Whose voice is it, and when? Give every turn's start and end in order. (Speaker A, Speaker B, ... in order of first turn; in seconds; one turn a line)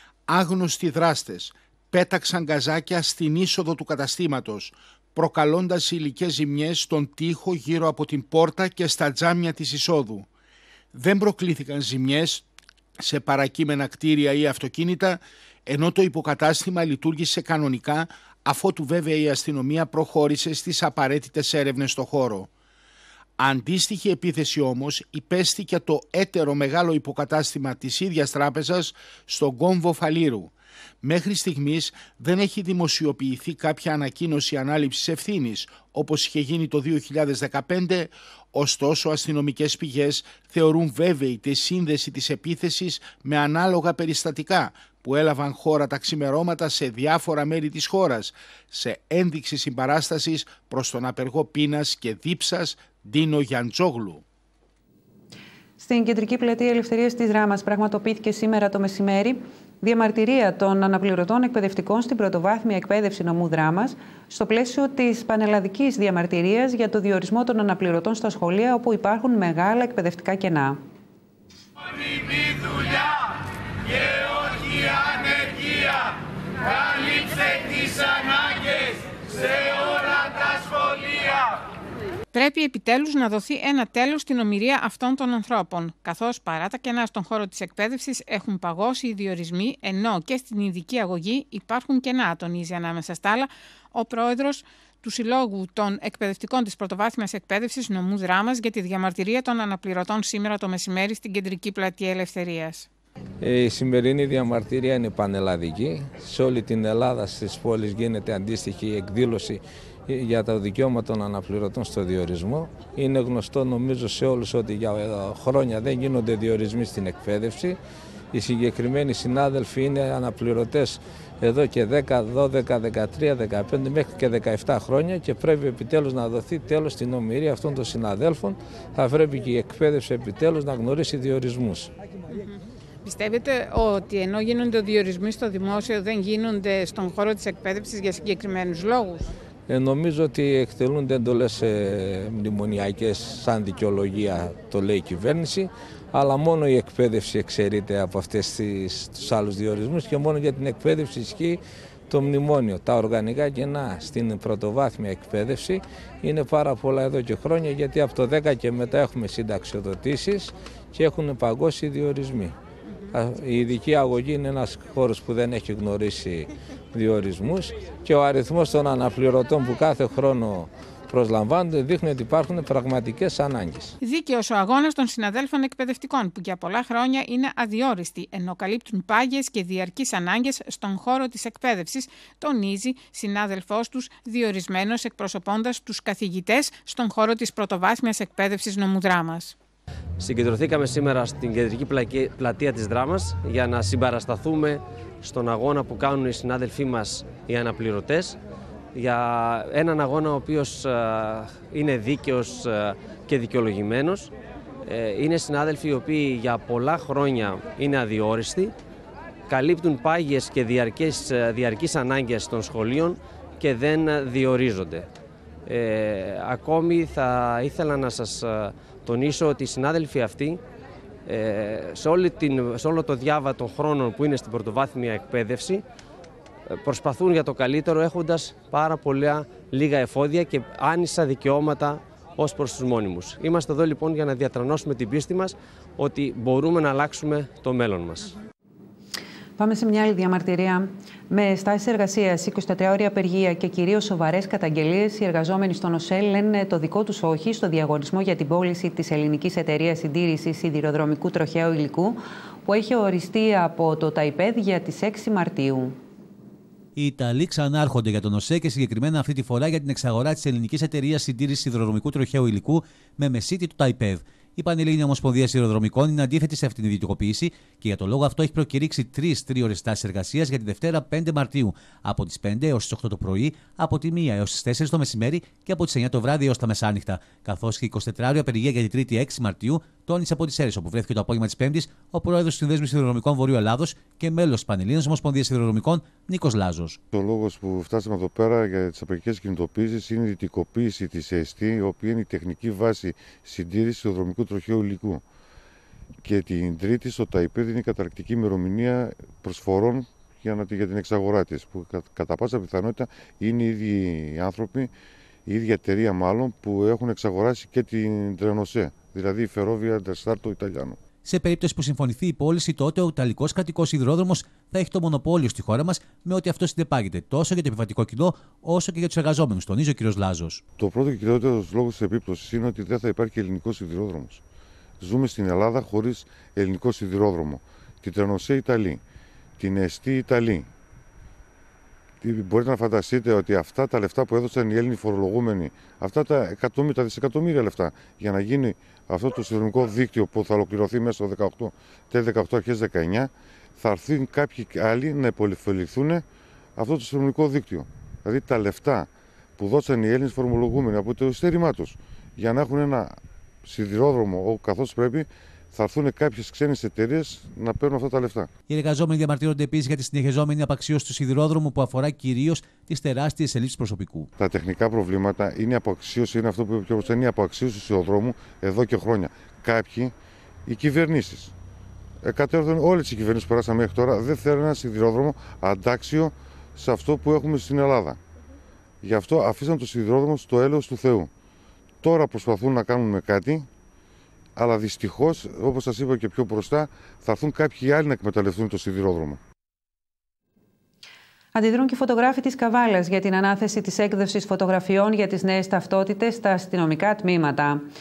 Speaker A: 0.3-10.3
Speaker A: 10.9-12.4
Speaker A: 13.0-22.5
Speaker A: 23.4-30.5
Speaker A: 31.0-54.2
Speaker B: 55.8-70.8
Speaker C: 82.3-102.9
Speaker D: 103.4-117.8
Speaker D: 118.3-131.9
Speaker C: 133.0-139.3
Speaker D: 139.7-162.5
Speaker D: 163.1-173.9
Speaker C: 174.0-189.6
Speaker E: 190.2-198.4
Speaker E: 198.9-204.3
Speaker E: 204.8-208.7
Speaker E: 209.5-215.1
Speaker E: 215.6-220.6
Speaker E: 221.2-225.8
Speaker E: 226.7-238.3
Speaker B: 239.6-255.9
Speaker F: 256.9-287.0
Speaker G: 287.1-295.2
Speaker G: 296.2-304.9
Speaker G: 305.4-311.0
Speaker F: 311.2-320.6
Speaker G: 320.8-324.4
Speaker G: 325.0-329.0
Speaker G: 329.6-330.7
Speaker G: 332.2-346.2
Speaker G: 346.8-358.5
Speaker F: 358.7-364.3
Speaker G: 364.4-370.1
Speaker G: 370.6-371.5
Speaker G: 372.2-378.2
Speaker G: 379.0-381.3
Speaker G: 382.0-383.7
Speaker G: 384.6-389.4
Speaker B: 391.5-397.8